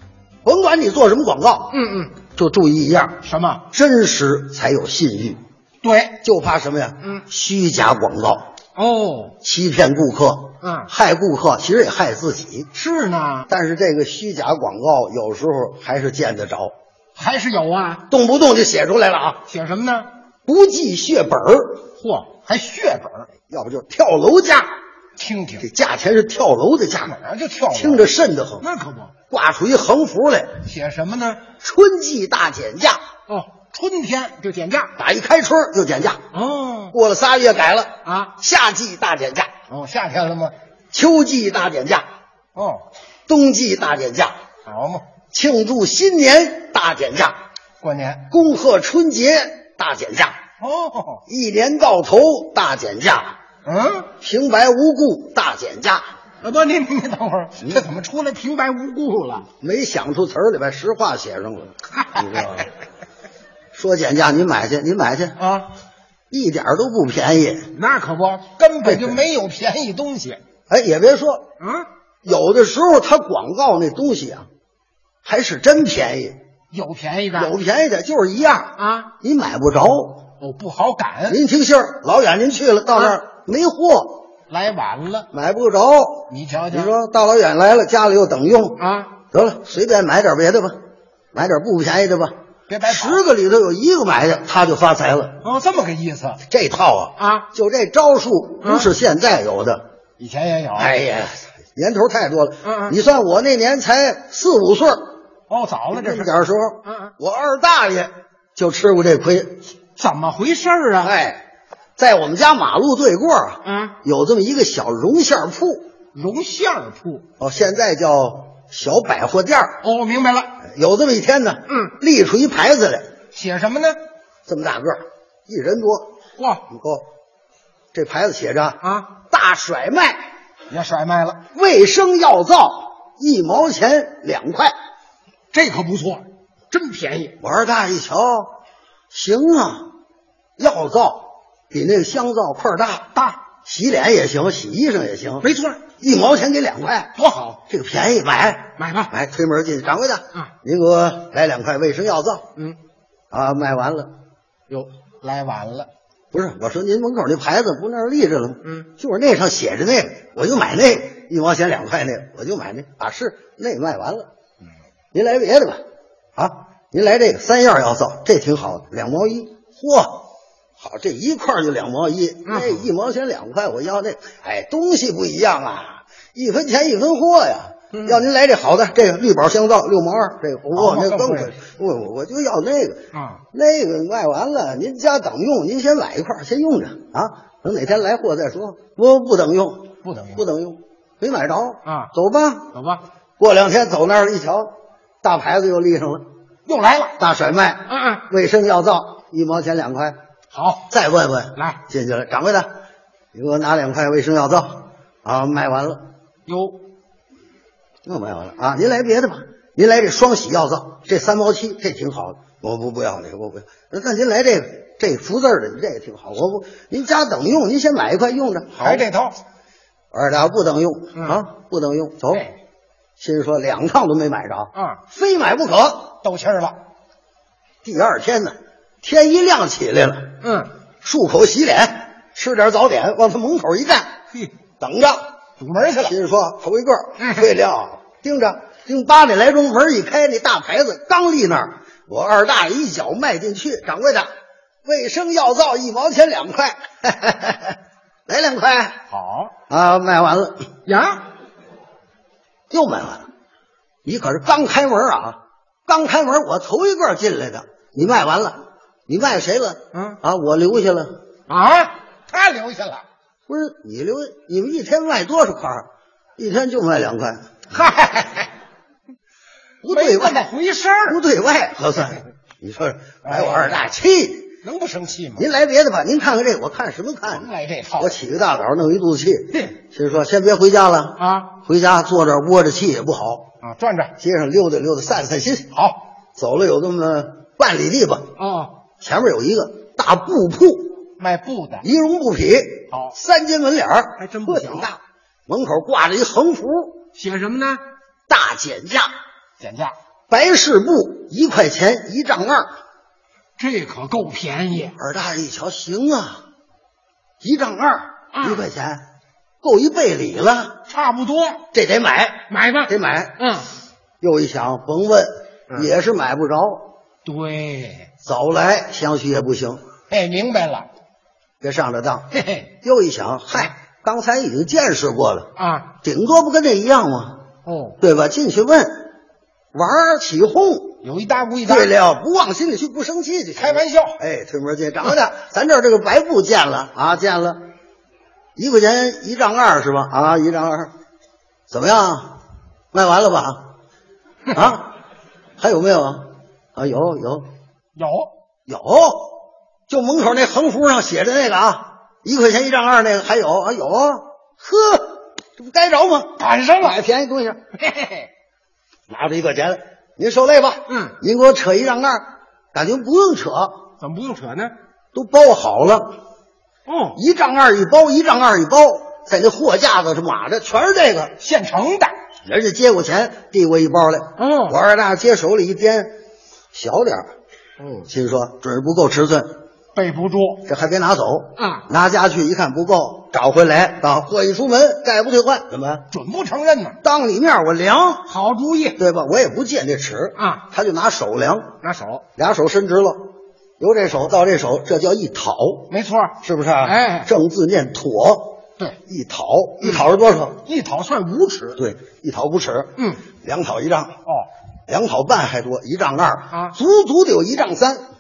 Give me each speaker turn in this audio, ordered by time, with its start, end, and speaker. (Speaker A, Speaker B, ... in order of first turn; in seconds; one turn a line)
Speaker A: 0.4-1.8
Speaker B: 1.7-2.1
Speaker A: 2.4-5.4
Speaker B: 3.2-3.6
Speaker B: 5.8-6.2
Speaker A: 6.2-8.5
Speaker B: 8.8-9.4
Speaker A: 9.4-12.7
Speaker B: 10.6-10.9
Speaker B: 12.7-13.5
Speaker A: 13.5-16.7
Speaker B: 17.2-18.1
Speaker A: 18.1-19.4
Speaker B: 19.5-20.1
Speaker A: 20.5-21.8
Speaker B: 22.0-23.3
Speaker A: 23.5-24.7
Speaker B: 25.2-25.7
Speaker A: 25.6-27.1
Speaker B: 27.1-28.1
Speaker A: 27.7-28.7
Speaker B: 28.6-29.1
Speaker A: 29.3-30.6
Speaker B: 30.6-31.5
Speaker A: 31.6-33.0
Speaker B: 33.3-34.9
Speaker A: 35.0-36.2
Speaker B: 36.3-37.0
Speaker A: 36.9-39.5
Speaker B: 38.0-38.3
Speaker B: 39.7-40.5
Speaker A: 40.9-42.1
Speaker B: 42.6-42.8
Speaker A: 43.3-44.4
Speaker B: 44.7-45.0
Speaker A: 45.3-47.4
Speaker B: 47.8-48.3
Speaker A: 48.3-50.4
Speaker B: 50.6-51.2
Speaker A: 51.3-53.4
Speaker B: 53.6-54.1
Speaker A: 54.2-56.0
Speaker B: 56.4-59.5
Speaker A: 59.6-62.7
Speaker B: 62.0-62.7
Speaker A: 63.7-65.4
Speaker B: 65.4-65.7
Speaker A: 66.3-67.7
Speaker B: 67.7-70.4
Speaker A: 68.8-69.2
Speaker A: 70.7-71.5
Speaker B: 71.6-71.9
Speaker A: 72.2-74.5
Speaker A: 75.2-76.4
Speaker B: 76.7-77.5
Speaker A: 77.3-80.3
Speaker B: 78.8-79.1
Speaker B: 80.4-81.4
Speaker A: 81.3-84.2
Speaker B: 84.5-85.3
Speaker A: 85.3-88.8
Speaker B: 86.3-86.9
Speaker B: 88.8-89.2
Speaker A: 89.3-90.8
Speaker A: 91.3-92.3
Speaker B: 92.7-93.2
Speaker A: 92.9-95.4
Speaker B: 95.4-96.4
Speaker A: 96.5-99.8
Speaker B: 97.2-97.5
Speaker B: 98.6-98.9
Speaker B: 100.2-100.9
Speaker A: 100.8-105.1
Speaker B: 102.6-103.0
Speaker B: 105.5-106.3
Speaker A: 105.9-109.6
Speaker B: 106.9-107.1
Speaker B: 110.0-111.1
Speaker A: 111.0-111.4
Speaker A: 112.0-115.9
Speaker B: 113.6-114.0
Speaker B: 116.1-117.2
Speaker A: 117.4-119.8
Speaker B: 119.8-120.5
Speaker A: 120.6-123.1
Speaker B: 121.7-121.9
Speaker B: 123.3-124.0
Speaker A: 124.5-126.1
Speaker B: 126.4-126.6
Speaker A: 126.7-127.0
Speaker A: 127.9-130.2
Speaker B: 128.8-129.1
Speaker B: 130.7-131.4
Speaker A: 131.5-134.8
Speaker B: 135.5-137.4
Speaker A: 137.4-138.6
Speaker A: 139.1-139.9
Speaker A: 140.6-143.1
Speaker A: 143.6-145.5
Speaker B: 145.4-145.8
Speaker A: 146.0-147.1
Speaker B: 147.2-147.6
Speaker A: 147.7-152.5
Speaker B: 148.8-149.1
Speaker A: 153.3-154.1
Speaker B: 154.7-155.9
Speaker A: 156.3-164.3
Speaker A: 165.1-165.8
Speaker A: 166.4-170.2
Speaker A: 170.8-192.7
Speaker B: 172.5-172.9
Speaker B: 177.9-178.2
Speaker B: 180.8-181.6
Speaker B: 183.1-183.4
Speaker B: 190.0-190.4
Speaker B: 191.8-192.1
Speaker B: 192.7-193.0
Speaker A: 193.4-196.2
Speaker B: 196.7-197.2
Speaker A: 197.2-200.2
Speaker B: 197.9-198.3
Speaker B: 200.5-200.9
Speaker A: 200.9-202.7
Speaker A: 203.3-206.1
Speaker B: 206.5-206.8
Speaker A: 208.1-219.1
Speaker B: 218.8-219.4
Speaker A: 220.1-222.4
Speaker B: 221.2-221.4
Speaker A: 223.2-226.2
Speaker B: 224.8-225.0
Speaker B: 226.2-226.8
Speaker A: 227.8-230.3
Speaker B: 230.4-230.7
Speaker A: 231.0-234.1
Speaker A: 234.8-235.3
Speaker B: 235.6-236.2
Speaker A: 236.0-244.3
Speaker B: 237.2-237.5
Speaker A: 244.8-249.0
Speaker B: 249.1-249.5
Speaker A: 249.7-250.7
Speaker B: 250.9-251.3
Speaker A: 252.7-253.3
Speaker A: 254.1-261.2
Speaker B: 259.9-260.2
Speaker B: 261.5-263.0
Speaker A: 263.5-267.5
Speaker B: 267.7-268.5
Speaker A: 269.8-270.5
Speaker B: 269.9-271.2
Speaker A: 271.1-274.6
Speaker B: 273.2-273.9
Speaker B: 274.6-275.5
Speaker A: 275.4-283.5
Speaker B: 277.3-278.2
Speaker B: 281.2-281.5
Speaker B: 283.6-284.1
Speaker A: 284.2-285.7
Speaker A: 286.4-288.3
Speaker B: 288.4-288.8
Speaker A: 289.0-291.1
Speaker B: 291.2-291.9
Speaker A: 291.8-297.1
Speaker B: 294.2-294.9
Speaker B: 297.1-297.8
Speaker A: 298.3-299.1
Speaker B: 299.6-299.9
Speaker A: 300.3-302.7
Speaker B: 303.6-305.0
Speaker A: 305.0-306.4
Speaker A: 307.4-309.0
Speaker B: 308.4-308.7
Speaker A: 309.6-310.8
Speaker B: 310.9-311.6
Speaker A: 311.7-313.4
Speaker B: 312.5-313.7
Speaker A: 314.2-316.9
Speaker B: 317.2-318.1
Speaker A: 318.2-319.8
Speaker B: 320.1-320.9
Speaker A: 321.6-322.3
Speaker B: 322.3-322.7
Speaker A: 322.8-327.4
Speaker B: 325.6-325.9
Speaker B: 327.7-328.0
Speaker A: 328.0-329.1
Speaker A: 329.7-331.0
Speaker B: 331.0-331.9
Speaker A: 331.6-337.6
Speaker B: 333.6-334.2
Speaker A: 338.6-340.9
Speaker A: 341.7-342.4
Speaker A: 342.9-343.7
Speaker A: 344.5-344.9
Speaker A: 345.6-347.5
Speaker B: 348.0-348.3
Speaker A: 348.7-357.6
Speaker B: 356.4-357.0
Speaker B: 357.8-358.3
Speaker A: 359.1-363.9
Speaker B: 360.9-361.2
Speaker B: 364.0-364.7
Speaker A: 365.1-366.2
Speaker B: 366.9-367.2
Speaker A: 367.1-371.4
Speaker B: 371.4-372.1
Speaker A: 372.5-376.1
Speaker B: 374.4-374.8
Speaker A: 376.7-377.3
Speaker B: 377.8-378.1
Speaker A: 378.1-379.6
Speaker B: 379.9-380.6
Speaker A: 380.6-386.1
Speaker B: 381.6-381.9
Speaker B: 386.1-387.0
Speaker A: 387.0-388.3
Speaker B: 388.3-389.0
Speaker A: 389.0-391.8
Speaker B: 390.4-390.7
Speaker B: 391.8-392.2
Speaker A: 392.4-400.6
Speaker B: 395.9-397.3
Speaker B: 400.6-401.8
Speaker A: 401.8-404.2
Speaker A: 404.9-408.1